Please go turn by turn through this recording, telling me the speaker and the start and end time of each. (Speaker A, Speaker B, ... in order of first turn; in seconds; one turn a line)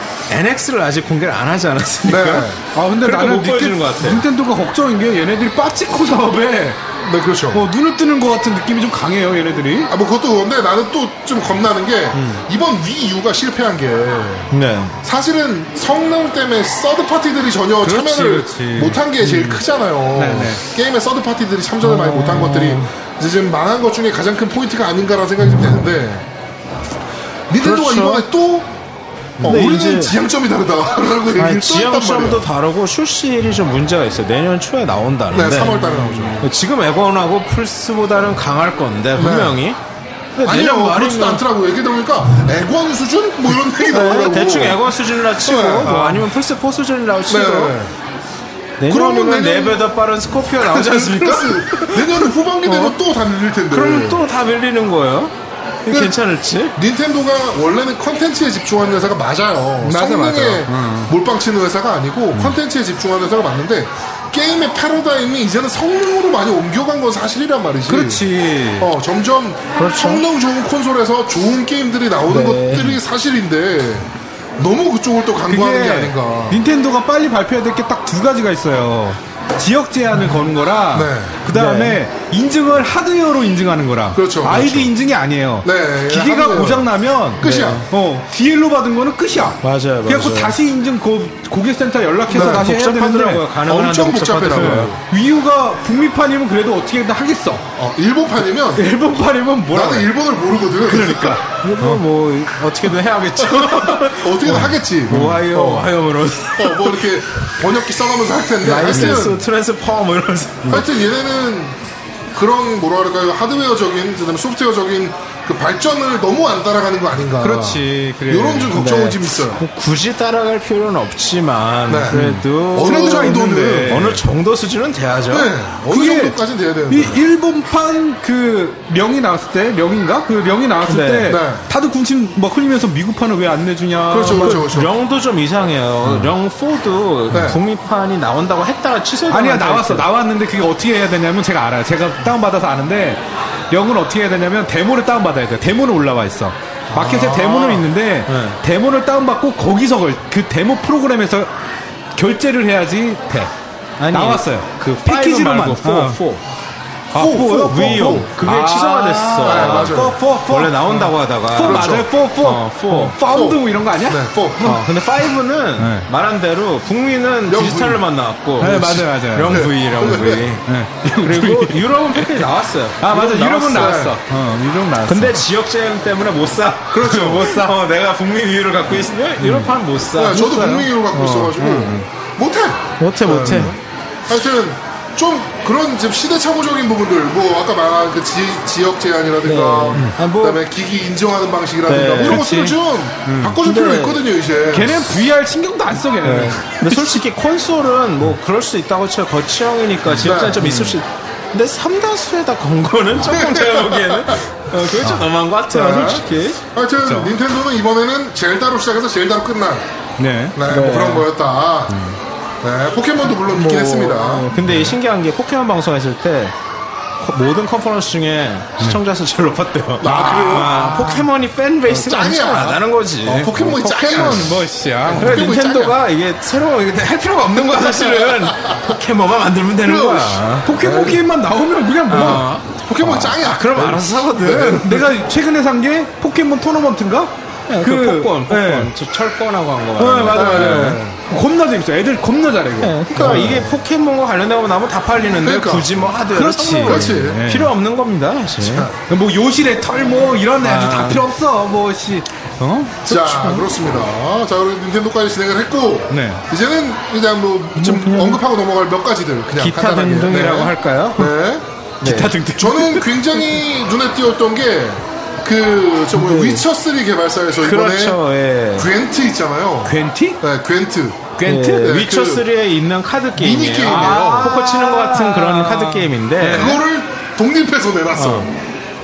Speaker A: 0.3-2.5
Speaker B: 2.0-2.6
Speaker C: 2.7-6.8
Speaker A: 3.0-4.2
Speaker B: 7.0-7.7
Speaker C: 7.5-9.9
Speaker B: 9.9-14.5
Speaker C: 12.1-12.4
Speaker A: 14.5-15.0
Speaker B: 15.0-26.2
Speaker C: 17.8-19.6
Speaker C: 20.1-20.6
Speaker A: 21.8-22.9
Speaker B: 27.5-28.7
Speaker A: 27.6-28.2
Speaker A: 29.4-30.1
Speaker B: 29.4-32.5
Speaker A: 31.4-35.8
Speaker B: 35.3-36.5
Speaker C: 35.6-36.4
Speaker A: 36.4-39.8
Speaker B: 39.2-39.6
Speaker A: 40.4-41.4
Speaker B: 40.4-46.0
Speaker A: 43.8-47.8
Speaker C: 45.8-46.3
Speaker B: 47.3-47.9
Speaker A: 48.8-53.0
Speaker B: 48.9-49.9
Speaker B: 50.6-54.2
Speaker A: 53.7-55.3
Speaker A: 55.9-56.8
Speaker B: 55.9-56.1
Speaker B: 56.8-68.2
Speaker C: 59.8-61.1
Speaker C: 67.9-68.9
Speaker B: 68.8-76.6
Speaker A: 69.8-70.2
Speaker A: 72.3-73.0
Speaker C: 75.5-93.4
Speaker B: 80.9-81.4
Speaker A: 81.5-82.0
Speaker B: 84.1-84.9
Speaker B: 85.6-87.8
Speaker A: 87.4-87.8
Speaker A: 89.6-90.6
Speaker B: 92.3-92.7
Speaker A: 92.3-94.9
Speaker B: 93.7-95.0
Speaker C: 94.5-97.6
Speaker B: 97.8-98.9
Speaker A: 98.8-100.0
Speaker B: 99.7-101.4
Speaker C: 100.9-102.0
Speaker A: 100.9-107.1
Speaker B: 103.6-105.9
Speaker C: 104.5-105.5
Speaker B: 106.5-109.4
Speaker A: 108.6-110.8
Speaker C: 108.9-109.3
Speaker B: 110.7-111.8
Speaker B: 112.3-119.6
Speaker C: 117.4-118.7
Speaker A: 118.7-125.5
Speaker B: 121.9-122.2
Speaker C: 122.1-124.2
Speaker B: 122.7-124.0
Speaker B: 125.3-127.2
Speaker C: 125.9-126.3
Speaker C: 126.9-134.6
Speaker A: 130.9-131.4
Speaker B: 131.2-131.7
Speaker B: 134.1-134.9
Speaker A: 134.2-140.1
Speaker C: 136.0-136.3
Speaker C: 137.3-137.6
Speaker B: 137.3-137.6
Speaker C: 139.3-151.5
Speaker B: 146.9-147.9
Speaker A: 148.3-148.6
Speaker C: 152.2-153.5
Speaker A: 154.0-156.4
Speaker C: 154.1-156.2
Speaker C: 157.1-164.8
Speaker B: 157.1-158.3
Speaker A: 157.6-163.2
Speaker B: 159.4-160.2
Speaker B: 161.6-162.1
Speaker B: 163.2-164.6
Speaker A: 164.6-170.6
Speaker C: 165.8-166.1
Speaker B: 167.5-168.0
Speaker C: 168.6-169.7
Speaker B: 168.6-170.5
Speaker C: 170.7-172.5
Speaker A: 171.2-174.0
Speaker C: 173.0-175.5
Speaker B: 173.7-174.2
Speaker A: 175.1-180.5
Speaker C: 176.9-177.7
Speaker B: 177.1-177.4
Speaker C: 179.4-182.1
Speaker B: 180.1-195.1
Speaker A: 183.0-183.7
Speaker A: 189.4-190.6
Speaker A: 191.9-192.4
Speaker C: 192.1-193.6
Speaker A: 193.6-194.2
Speaker C: 194.7-197.2
Speaker A: 196.2-206.6
Speaker C: 200.2-201.0
Speaker B: 200.2-200.7
Speaker B: 203.2-204.4
Speaker C: 205.0-205.3
Speaker B: 205.7-209.8
Speaker C: 207.0-207.3
Speaker C: 210.2-210.6
Speaker B: 210.5-211.9
Speaker A: 210.6-211.3
Speaker C: 211.9-212.2
Speaker B: 212.6-214.5
Speaker A: 213.5-216.6
Speaker C: 214.6-214.9
Speaker A: 217.2-230.7
Speaker B: 220.0-220.8
Speaker C: 220.0-221.3
Speaker B: 221.9-224.5
Speaker C: 224.1-225.4
Speaker B: 225.0-225.9
Speaker B: 227.6-228.9
Speaker B: 229.8-231.2
Speaker C: 230.6-232.5
Speaker A: 232.1-234.8
Speaker B: 232.2-235.1
Speaker C: 234.4-238.9
Speaker A: 237.7-241.0
Speaker C: 240.0-243.7
Speaker B: 240.3-241.2
Speaker A: 242.8-248.9
Speaker B: 243.1-243.7
Speaker B: 245.4-245.9
Speaker C: 246.3-247.7
Speaker B: 246.8-247.4
Speaker B: 248.6-248.9
Speaker C: 249.1-253.0
Speaker A: 250.6-251.2
Speaker A: 253.1-253.7
Speaker B: 253.1-261.6
Speaker C: 256.1-256.4
Speaker A: 257.8-258.4
Speaker A: 259.6-261.4
Speaker A: 262.0-262.4
Speaker C: 262.0-263.1
Speaker B: 262.5-268.2
Speaker A: 266.1-266.6
Speaker A: 267.6-268.9
Speaker B: 268.7-272.4
Speaker C: 269.9-270.4
Speaker C: 271.4-271.9
Speaker A: 271.4-276.8
Speaker B: 273.4-274.6
Speaker C: 273.9-276.8
Speaker B: 276.5-278.5
Speaker A: 278.1-278.5